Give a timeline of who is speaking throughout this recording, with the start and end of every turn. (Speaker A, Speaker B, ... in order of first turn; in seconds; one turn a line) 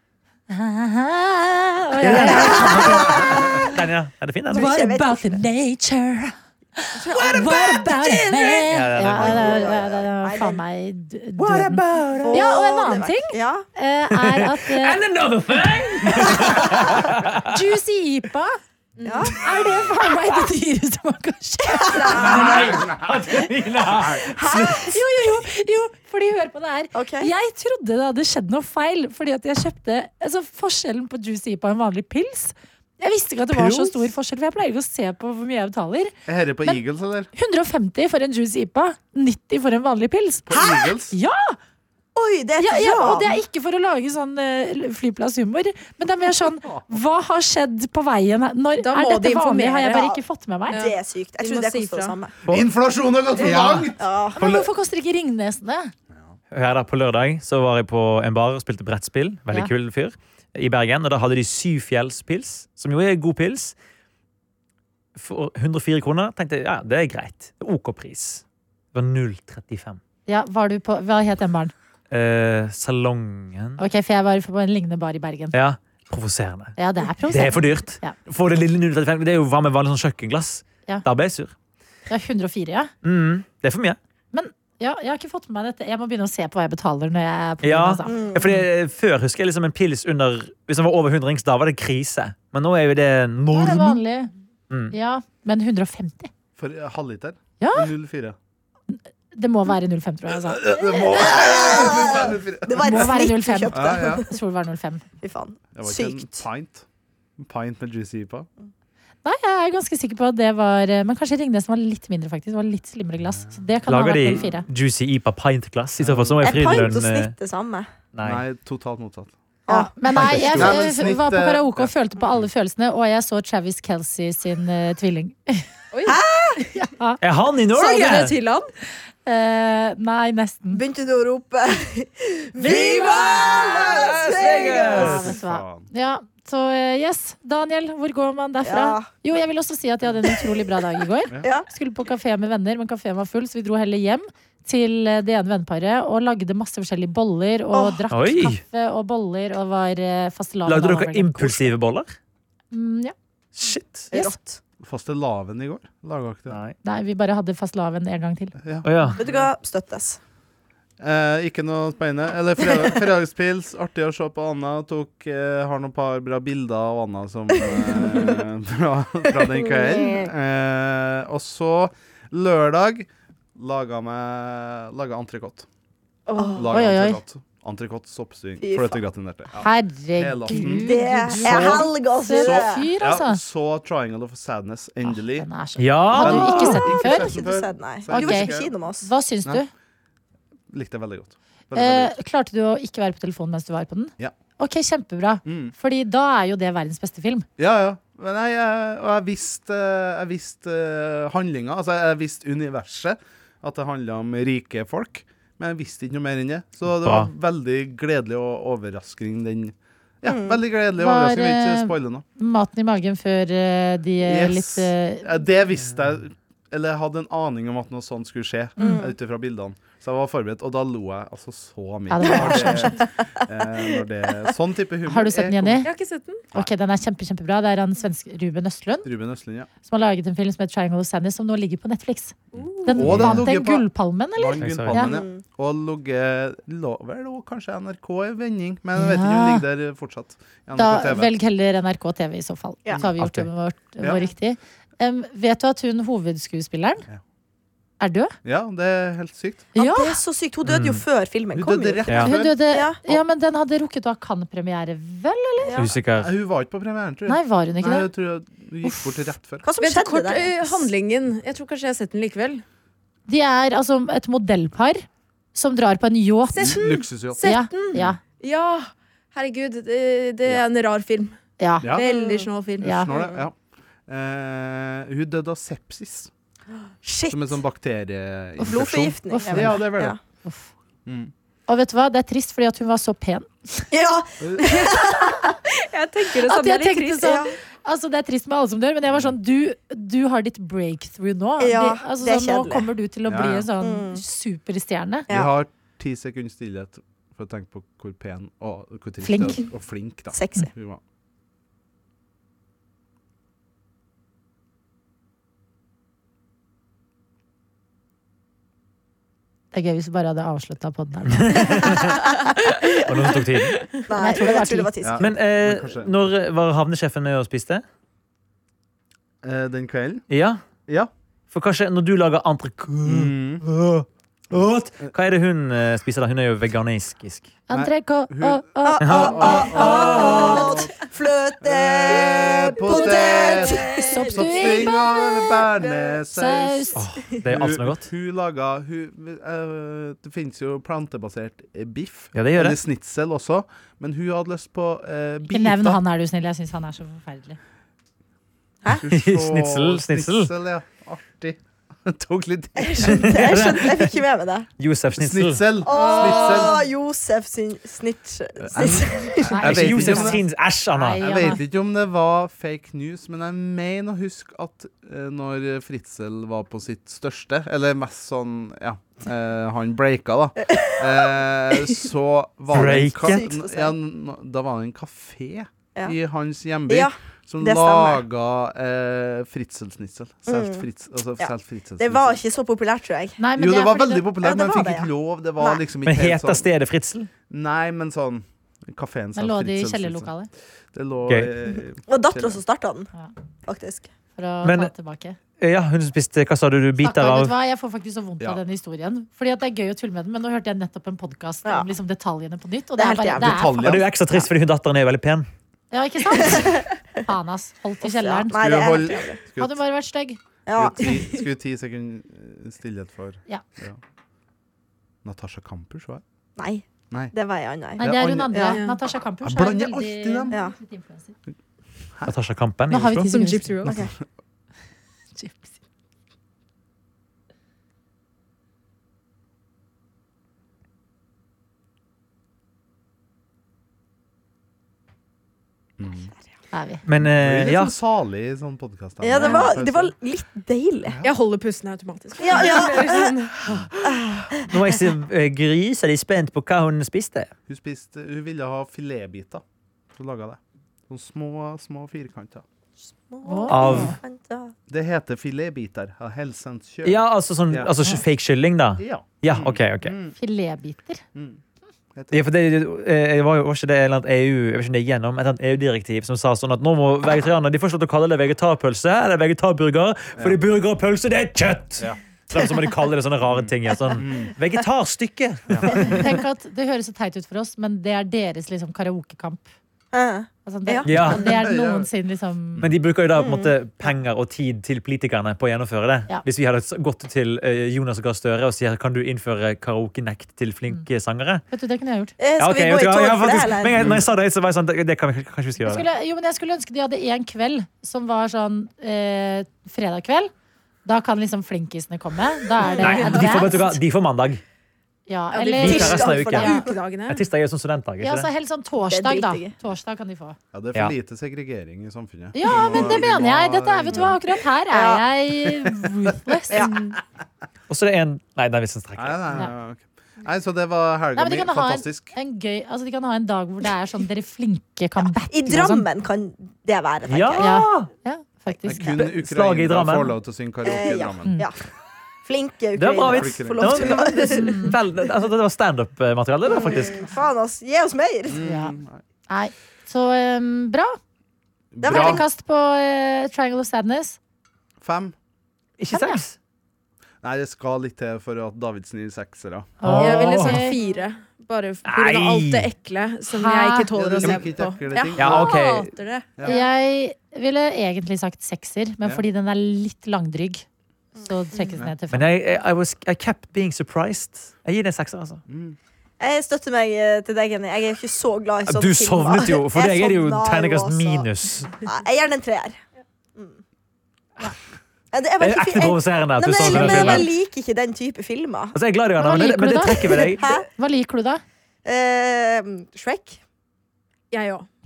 Speaker A: 0.5-3.6
Speaker B: 2.0-4.7
Speaker C: 2.0-3.7
Speaker C: 4.5-5.4
Speaker A: 4.5-15.0
Speaker C: 6.9-10.6
Speaker B: 7.1-7.4
Speaker B: 8.7-9.6
Speaker B: 11.4-12.5
Speaker C: 12.2-13.7
Speaker B: 14.3-17.4
Speaker A: 17.4-18.6
Speaker D: 19.0-19.3
Speaker C: 19.0-19.4
Speaker A: 19.4-22.4
Speaker C: 21.7-22.9
Speaker B: 22.1-24.9
Speaker C: 24.2-25.0
Speaker A: 24.9-36.8
Speaker C: 26.9-27.3
Speaker B: 33.6-33.9
Speaker E: 36.2-37.3
Speaker A: 37.3-40.5
Speaker E: 40.5-41.1
Speaker C: 40.5-40.9
Speaker A: 41.1-41.6
Speaker C: 42.1-43.3
Speaker A: 42.6-50.8
Speaker D: 48.8-50.0
Speaker C: 49.9-50.2
Speaker D: 50.7-52.2
Speaker C: 50.7-52.3
Speaker E: 52.5-54.0
Speaker C: 54.0-54.4
Speaker A: 54.3-55.9
Speaker B: 56.5-63.7
Speaker B: 65.1-68.4
Speaker B: 68.9-70.0
Speaker A: 70.3-71.7
Speaker B: 72.1-73.8
Speaker A: 73.8-75.5
Speaker B: 75.5-76.8
Speaker A: 76.8-78.1
Speaker B: 77.3-81.5
Speaker A: 82.1-82.9
Speaker B: 83.0-84.0
Speaker A: 84.3-88.2
Speaker B: 87.6-94.0
Speaker C: 88.0-88.5
Speaker A: 93.5-94.3
Speaker A: 94.9-96.3
Speaker E: 96.6-98.3
Speaker A: 97.6-97.9
Speaker A: 98.9-102.0
Speaker E: 100.3-103.1
Speaker C: 101.2-104.3
Speaker A: 102.8-105.0
Speaker E: 103.7-104.2
Speaker C: 105.2-106.4
Speaker E: 105.7-106.8
Speaker E: 107.4-108.5
Speaker A: 109.2-114.7
Speaker B: 113.9-117.3
Speaker E: 116.0-116.9
Speaker C: 116.4-117.9
Speaker B: 118.1-118.4
Speaker E: 118.2-119.3
Speaker C: 119.7-119.9
Speaker A: 119.7-125.6
Speaker B: 120.1-120.8
Speaker E: 120.2-121.9
Speaker D: 125.9-126.2
Speaker C: 126.0-126.6
Speaker B: 127.2-128.3
Speaker D: 127.7-128.7
Speaker A: 129.2-130.8
Speaker C: 130.7-135.1
Speaker B: 132.6-135.2
Speaker E: 134.5-135.9
Speaker A: 134.9-151.7
Speaker C: 138.6-139.1
Speaker C: 147.7-148.0
Speaker B: 148.1-148.6
Speaker B: 150.7-152.1
Speaker A: 152.7-153.1
Speaker B: 153.5-154.1
Speaker C: 154.1-154.6
Speaker A: 154.1-154.4
Speaker E: 154.8-156.6
Speaker B: 156.5-156.8
Speaker A: 156.8-158.5
Speaker E: 158.6-159.5
Speaker B: 158.8-159.2
Speaker C: 159.2-160.2
Speaker E: 161.0-175.6
Speaker C: 167.9-168.3
Speaker C: 169.3-170.3
Speaker C: 176.4-176.6
Speaker A: 176.4-177.2
Speaker E: 176.6-180.9
Speaker C: 178.6-179.0
Speaker A: 179.6-183.4
Speaker B: 180.5-180.9
Speaker C: 180.8-182.8
Speaker B: 181.4-181.9
Speaker E: 181.4-185.5
Speaker A: 185.0-187.3
Speaker B: 185.8-186.8
Speaker E: 186.1-188.7
Speaker C: 186.6-189.1
Speaker A: 188.1-189.7
Speaker E: 190.7-192.2
Speaker A: 191.7-197.4
Speaker E: 195.4-195.7
Speaker E: 197.6-212.2
Speaker B: 207.0-207.3
Speaker C: 210.2-210.6
Speaker A: 211.0-215.3
Speaker E: 214.2-225.8
Speaker A: 218.8-219.0
Speaker C: 218.8-219.1
Speaker A: 222.1-223.0
Speaker C: 222.2-223.2
Speaker A: 225.1-225.9
Speaker D: 225.8-226.4
Speaker A: 226.5-229.1
Speaker E: 229.0-229.7
Speaker A: 229.8-235.2
Speaker E: 232.5-241.3
Speaker D: 232.6-233.0
Speaker B: 233.1-233.5
Speaker B: 234.6-235.0
Speaker C: 235.0-235.4
Speaker A: 238.9-239.6
Speaker A: 240.7-247.1
Speaker B: 243.2-243.5
Speaker A: 248.0-248.3
Speaker E: 248.4-249.7
Speaker A: 249.8-250.2
Speaker C: 249.8-253.0
Speaker B: 250.7-251.0
Speaker E: 251.5-253.2
Speaker A: 252.1-255.8
Speaker C: 255.6-255.9
Speaker B: 255.7-256.3
Speaker E: 256.2-259.6
Speaker A: 257.2-258.1
Speaker A: 258.8-259.3
Speaker C: 259.6-260.9
Speaker D: 259.8-262.6
Speaker A: 263.3-266.8
Speaker D: 266.5-271.4
Speaker E: 266.6-267.4
Speaker A: 267.4-268.2
Speaker A: 271.6-271.9
Speaker E: 271.8-272.1
Speaker D: 271.9-273.3
Speaker C: 272.0-272.5
Speaker A: 272.8-273.1
Speaker E: 272.8-273.5
Speaker E: 274.1-276.3
Speaker C: 277.0-277.6
Speaker E: 277.3-280.2
Speaker C: 278.6-280.2
Speaker A: 279.3-280.7
Speaker E: 281.1-281.3
Speaker A: 281.7-283.9
Speaker C: 283.9-285.6
Speaker E: 284.4-284.7
Speaker D: 285.9-287.3
Speaker A: 286.4-295.3
Speaker C: 287.2-287.6
Speaker C: 291.6-292.9
Speaker E: 293.3-293.7
Speaker C: 293.8-294.2
Speaker E: 295.3-301.0
Speaker A: 299.2-299.6
Speaker C: 300.3-300.7
Speaker A: 309.7-311.9
Speaker B: 311.3-312.1
Speaker C: 311.7-312.2
Speaker B: 313.1-313.8
Speaker D: 313.7-314.1
Speaker C: 314.1-315.2
Speaker A: 314.1-314.9
Speaker E: 315.0-316.1
Speaker B: 315.2-317.8
Speaker E: 319.4-320.2
Speaker B: 320.3-320.6
Speaker B: 321.5-327.5
Speaker E: 323.0-323.6
Speaker A: 327.7-330.9
Speaker E: 327.7-328.6
Speaker C: 328.8-336.1
Speaker B: 329.0-330.6
Speaker E: 329.2-330.9
Speaker E: 331.6-346.0
Speaker A: 332.9-333.2
Speaker A: 334.0-335.1
Speaker A: 336.3-337.0
Speaker B: 336.9-338.1
Speaker B: 342.3-342.8
Speaker A: 345.5-347.6
Speaker E: 348.9-353.7
Speaker B: 349.1-350.5
Speaker C: 352.8-354.7
Speaker B: 353.1-354.2
Speaker B: 354.8-355.7
Speaker E: 355.1-356.8
Speaker C: 355.8-359.6
Speaker D: 355.9-356.7
Speaker E: 358.6-360.4
Speaker A: 359.5-361.6
Speaker B: 359.6-361.2
Speaker E: 361.2-382.4
Speaker B: 372.7-373.4
Speaker C: 373.3-373.9
Speaker C: 376.9-378.2
Speaker C: 380.5-380.8
Speaker C: 381.4-383.4
Speaker A: 383.4-384.3
Speaker E: 383.5-386.7
Speaker C: 384.3-385.8
Speaker B: 386.1-387.3
Speaker E: 387.5-390.3
Speaker A: 389.3-390.5
Speaker E: 390.9-392.6
Speaker C: 392.1-393.1
Speaker C: 393.7-394.1
Speaker A: 394.4-395.4
Speaker B: 394.6-394.9
Speaker B: 395.6-397.5
Speaker A: 397.0-403.9
Speaker C: 403.0-403.6
Speaker E: 403.4-404.1
Speaker B: 403.8-405.5
Speaker A: 405.9-408.9
Speaker C: 406.3-406.9
Speaker C: 408.0-409.4
Speaker E: 408.5-409.8
Speaker A: 409.6-410.4
Speaker C: 410.7-411.2
Speaker E: 410.7-414.0
Speaker E: 415.2-416.2
Speaker C: 416.6-418.8
Speaker A: 418.0-421.3
Speaker E: 418.0-418.6
Speaker D: 418.7-419.0
Speaker E: 419.4-420.5
Speaker B: 422.2-423.3
Speaker A: 422.9-423.8
Speaker D: 423.3-424.0
Speaker E: 423.8-424.1
Speaker C: 423.9-424.1
Speaker A: 425.3-425.8
Speaker E: 436.0-436.3
Speaker A: 436.7-437.0
Speaker B: 437.1-437.9
Speaker E: 437.2-440.1
Speaker C: 439.2-441.2
Speaker A: 439.4-439.6
Speaker D: 441.2-443.7
Speaker C: 442.4-443.3
Speaker C: 444.0-444.7
Speaker B: 444.7-447.5
Speaker E: 447.7-449.6
Speaker E: 450.1-452.6
Speaker C: 453.3-454.7
Speaker A: 453.4-454.2
Speaker B: 453.7-454.1
Speaker E: 454.9-457.9
Speaker B: 457.0-460.1
Speaker E: 459.0-460.3
Speaker A: 460.4-461.2
Speaker E: 461.3-461.6
Speaker E: 462.1-462.4
Speaker B: 462.3-476.3
Speaker E: 473.4-474.5
Speaker A: 476.0-479.7
Speaker C: 480.1-481.1
Speaker A: 480.6-482.8
Speaker B: 481.1-481.6
Speaker E: 481.1-482.1
Speaker E: 482.7-483.0
Speaker B: 482.8-491.6
Speaker C: 483.4-483.7
Speaker A: 491.7-492.3
Speaker C: 492.4-494.2
Speaker B: 492.6-496.1
Speaker E: 493.9-494.2
Speaker A: 495.8-500.5
Speaker A: 501.1-504.0
Speaker B: 503.0-504.6
Speaker A: 505.3-506.6
Speaker D: 505.5-507.4
Speaker C: 505.8-506.9
Speaker B: 505.8-508.5
Speaker A: 508.2-510.6
Speaker C: 509.1-509.7
Speaker E: 510.7-514.4
Speaker A: 512.5-517.1
Speaker C: 512.7-513.2
Speaker C: 514.9-515.2
Speaker E: 515.6-515.9
Speaker C: 516.7-517.0
Speaker B: 517.9-519.5
Speaker E: 519.1-522.3
Speaker A: 521.4-526.0
Speaker C: 525.5-527.7
Speaker B: 527.2-528.1
Speaker A: 527.6-529.1
Speaker E: 528.9-531.6
Speaker B: 529.1-530.3
Speaker C: 530.8-531.8
Speaker C: 532.4-534.9
Speaker B: 533.0-537.3
Speaker E: 533.2-534.3
Speaker A: 534.5-534.9
Speaker C: 536.7-538.6
Speaker E: 538.5-539.2
Speaker A: 538.6-539.0
Speaker A: 539.5-541.2
Speaker E: 541.9-542.4
Speaker C: 542.0-542.4
Speaker A: 542.0-544.4
Speaker E: 545.0-545.3
Speaker B: 546.0-546.5
Speaker A: 546.1-546.4
Speaker E: 547.4-549.9
Speaker A: 550.0-551.0
Speaker B: 550.0-550.8
Speaker D: 550.2-556.8
Speaker B: 552.0-552.9
Speaker A: 553.5-554.5
Speaker E: 554.1-555.8
Speaker B: 555.4-556.1
Speaker A: 556.6-560.8
Speaker A: 561.4-562.6
Speaker B: 562.3-565.6
Speaker E: 565.7-566.0
Speaker C: 566.4-571.5
Speaker B: 568.9-572.0
Speaker C: 572.0-573.0
Speaker C: 575.3-579.0
Speaker B: 575.6-577.5
Speaker A: 576.8-577.5
Speaker B: 578.9-580.6
Speaker A: 579.4-581.6
Speaker C: 580.3-580.9
Speaker C: 582.0-583.6
Speaker D: 584.5-584.9